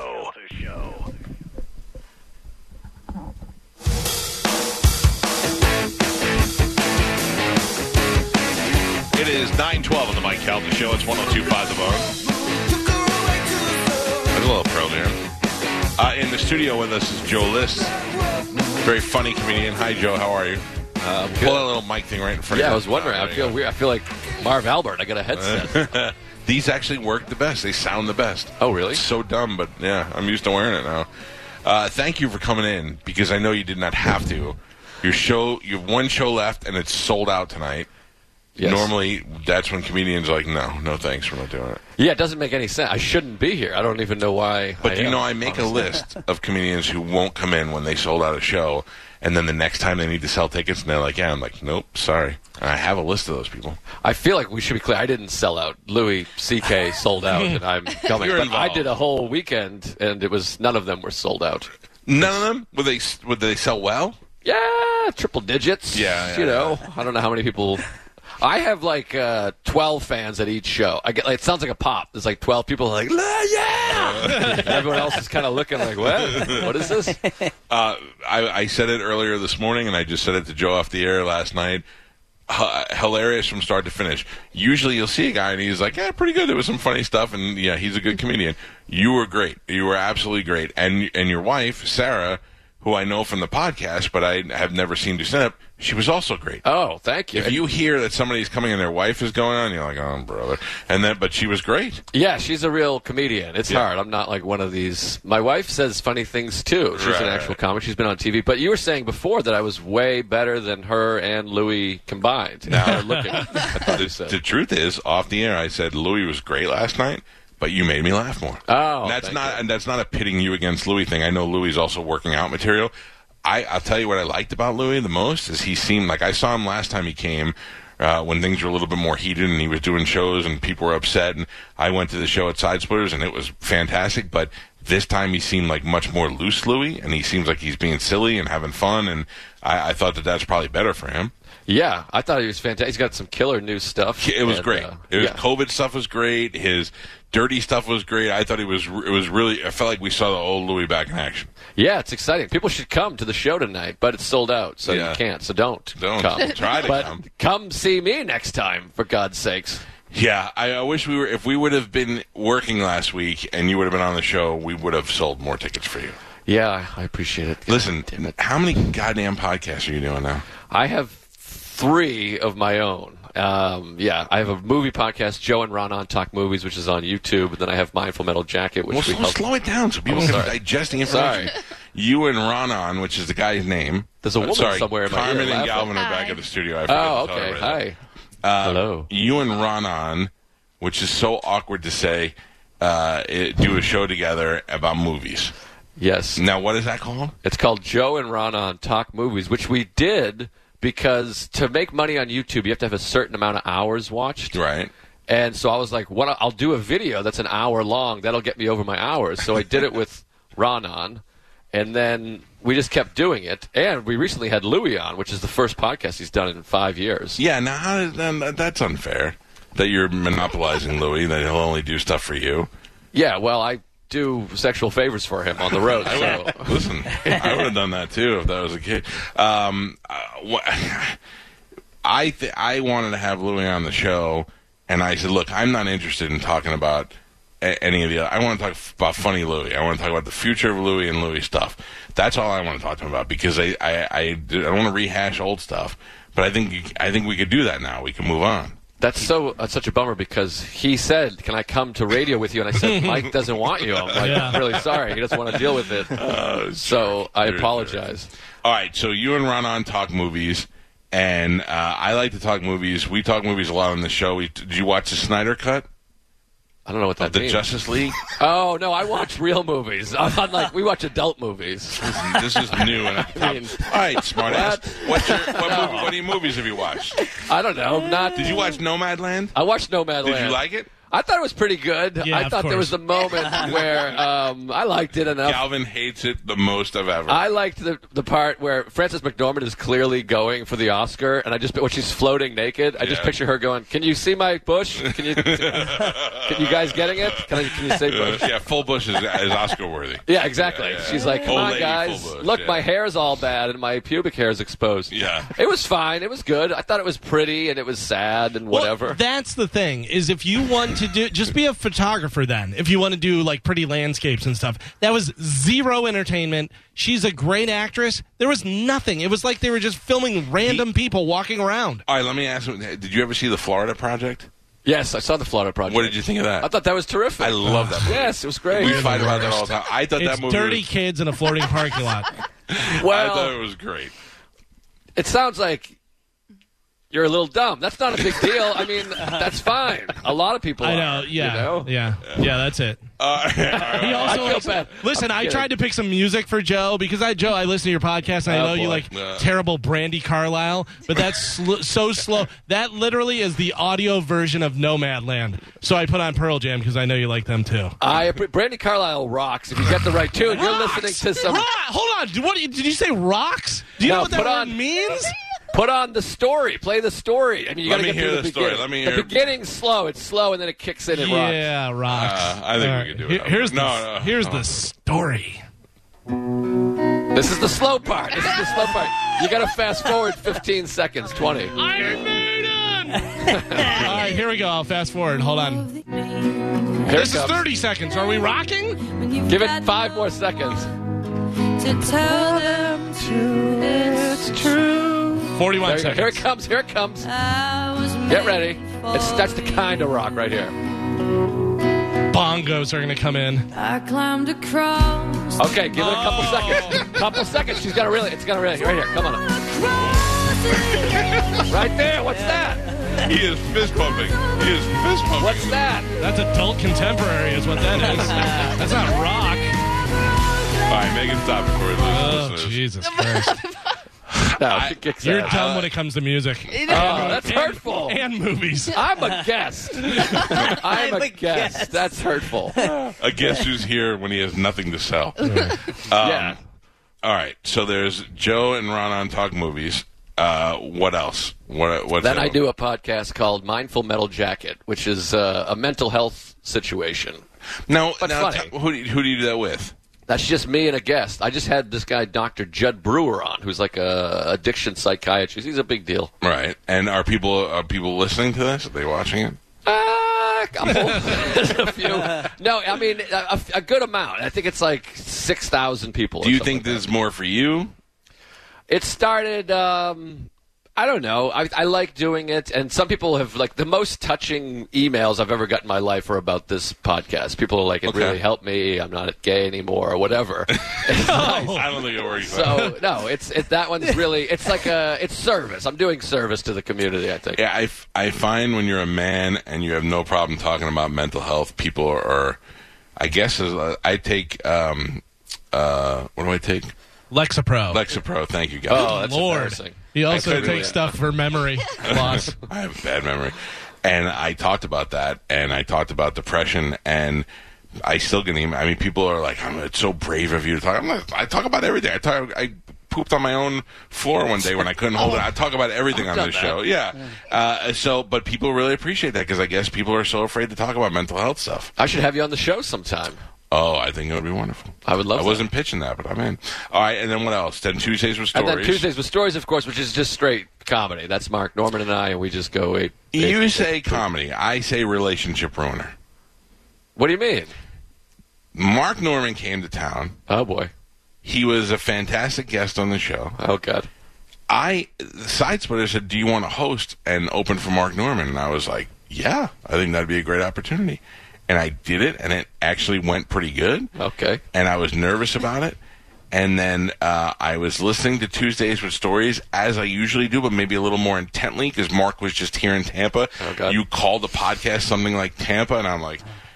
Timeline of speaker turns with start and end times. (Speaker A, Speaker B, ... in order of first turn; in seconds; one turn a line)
Speaker A: 9.1-12.1
Speaker A: 14.3-15.2
Speaker A: 16.0-17.9
Speaker A: 18.8-20.6
Speaker B: 21.0-21.7
Speaker A: 21.4-23.6
Speaker B: 22.5-25.9
Speaker A: 25.3-31.1
Speaker B: 28.6-29.0
Speaker A: 31.6-37.9
Speaker B: 38.6-38.9
Speaker A: 38.6-41.8
Speaker B: 42.0-45.8
Speaker A: 44.8-53.8
Speaker B: 54.0-61.7
Speaker A: 58.0-59.0
Speaker A: 62.0-64.2
Speaker B: 64.4-67.8
Speaker A: 65.9-66.8
Speaker B: 68.4-77.2
Speaker A: 73.9-74.8
Speaker A: 76.3-76.7
Speaker A: 77.7-81.8
Speaker A: 82.5-96.6
Speaker B: 96.6-97.6
Speaker A: 97.3-102.0
Speaker B: 102.1-114.4
Speaker A: 106.9-107.6
Speaker A: 112.7-122.9
Speaker B: 118.7-119.6
Speaker A: 123.4-141.3
Speaker B: 141.7-145.4
Speaker A: 144.2-151.5
Speaker B: 151.8-159.8
Speaker A: 154.8-155.2
Speaker A: 155.9-157.2
Speaker A: 160.1-166.2
Speaker B: 166.5-168.3
Speaker A: 167.7-170.4
Speaker B: 170.7-179.4
Speaker A: 178.9-187.8
Speaker B: 180.1-181.5
Speaker B: 184.2-186.0
Speaker B: 186.9-188.0
Speaker A: 188.4-195.5
Speaker B: 188.6-189.1
Speaker B: 196.0-196.4
Speaker A: 196.3-197.3
Speaker B: 197.4-204.6
Speaker A: 204.5-204.9
Speaker B: 205.3-211.2
Speaker B: 211.7-217.4
Speaker A: 217.4-222.7
Speaker B: 223.1-227.7
Speaker A: 225.8-231.2
Speaker A: 232.0-248.8
Speaker B: 249.0-256.2
Speaker C: 252.8-253.3
Speaker A: 254.2-254.8
Speaker C: 254.2-254.8
Speaker A: 256.1-258.0
Speaker B: 256.8-258.3
Speaker A: 258.6-265.9
Speaker B: 266.9-267.7
Speaker A: 267.2-268.2
Speaker B: 268.4-276.3
Speaker A: 272.0-277.3
Speaker B: 277.3-278.6
Speaker A: 278.3-279.5
Speaker B: 279.5-285.6
Speaker A: 280.2-280.9
Speaker C: 282.2-283.0
Speaker A: 285.4-287.4
Speaker B: 287.3-298.5
Speaker A: 293.0-293.4
Speaker A: 295.1-302.8
Speaker B: 300.2-309.2
Speaker A: 305.1-305.5
Speaker C: 308.7-322.0
Speaker A: 320.6-320.9
Speaker A: 322.1-324.5
Speaker B: 324.8-329.3
Speaker A: 325.9-326.7
Speaker A: 327.4-330.8
Speaker C: 327.6-328.2
Speaker C: 328.7-332.3
Speaker A: 332.7-334.1
Speaker B: 332.8-333.6
Speaker B: 335.1-335.9
Speaker B: 337.1-341.9
Speaker C: 340.8-343.0
Speaker A: 342.3-342.5
Speaker A: 343.2-344.7
Speaker B: 343.7-345.7
Speaker C: 343.8-357.9
Speaker B: 348.5-349.1
Speaker A: 349.1-349.5
Speaker B: 358.0-361.7
Speaker C: 360.4-365.4
Speaker B: 364.0-364.8
Speaker B: 365.7-371.7
Speaker A: 367.8-369.5
Speaker C: 371.1-375.6
Speaker A: 372.1-374.7
Speaker B: 377.3-381.8
Speaker C: 381.7-385.9
Speaker B: 383.4-384.2
Speaker D: 384.1-384.4
Speaker D: 385.4-387.0
Speaker B: 387.0-387.6
Speaker C: 387.1-389.0
Speaker D: 388.9-390.9
Speaker B: 389.4-390.9
Speaker D: 391.5-395.7
Speaker C: 395.5-396.4
Speaker B: 395.8-397.3
Speaker D: 397.2-400.4
Speaker B: 398.2-400.7
Speaker C: 402.3-403.7
Speaker D: 403.7-405.9
Speaker B: 405.6-409.5
Speaker C: 405.9-407.2
Speaker D: 409.6-410.2
Speaker A: 410.1-411.7
Speaker B: 411.6-412.9
Speaker A: 413.1-415.9
Speaker B: 415.4-416.1
Speaker C: 416.2-419.8
Speaker A: 420.8-422.8
Speaker C: 422.1-423.6
Speaker A: 424.5-425.7
Speaker B: 424.6-425.9
Speaker C: 425.2-429.1
Speaker B: 426.9-428.2
Speaker B: 428.9-433.0
Speaker A: 430.3-430.9
Speaker D: 431.4-432.0
Speaker A: 433.1-436.6
Speaker C: 435.4-435.8
Speaker B: 436.1-436.6
Speaker A: 437.2-442.6
Speaker B: 442.2-447.4
Speaker A: 447.9-449.9
Speaker B: 448.2-448.7
Speaker B: 450.3-456.3
Speaker A: 456.4-459.6
Speaker B: 459.8-467.0
Speaker A: 466.4-467.9
Speaker B: 468.9-481.8
Speaker A: 478.1-478.4
Speaker A: 480.8-483.0
Speaker C: 481.2-481.9
Speaker B: 482.4-487.6
Speaker A: 487.5-492.6
Speaker A: 493.2-496.9
Speaker C: 497.3-498.0
Speaker A: 497.9-499.2
Speaker B: 498.9-501.1
Speaker C: 498.9-502.6
Speaker A: 500.3-501.1
Speaker A: 502.0-507.5
Speaker A: 508.0-521.9
Speaker B: 515.1-515.5
Speaker B: 516.1-516.8
Speaker B: 522.0-523.4
Speaker A: 523.7-529.1
Speaker B: 525.0-525.7
Speaker B: 528.5-534.2
Speaker A: 533.3-536.1
Speaker B: 537.1-537.7
Speaker A: 538.7-540.4
Speaker B: 540.5-540.9
Speaker A: 541.4-543.6
Speaker B: 543.6-544.1
Speaker A: 544.7-554.1
Speaker B: 554.1-554.6
Speaker A: 554.7-556.0
Speaker A: 556.5-566.4
Speaker B: 563.6-564.0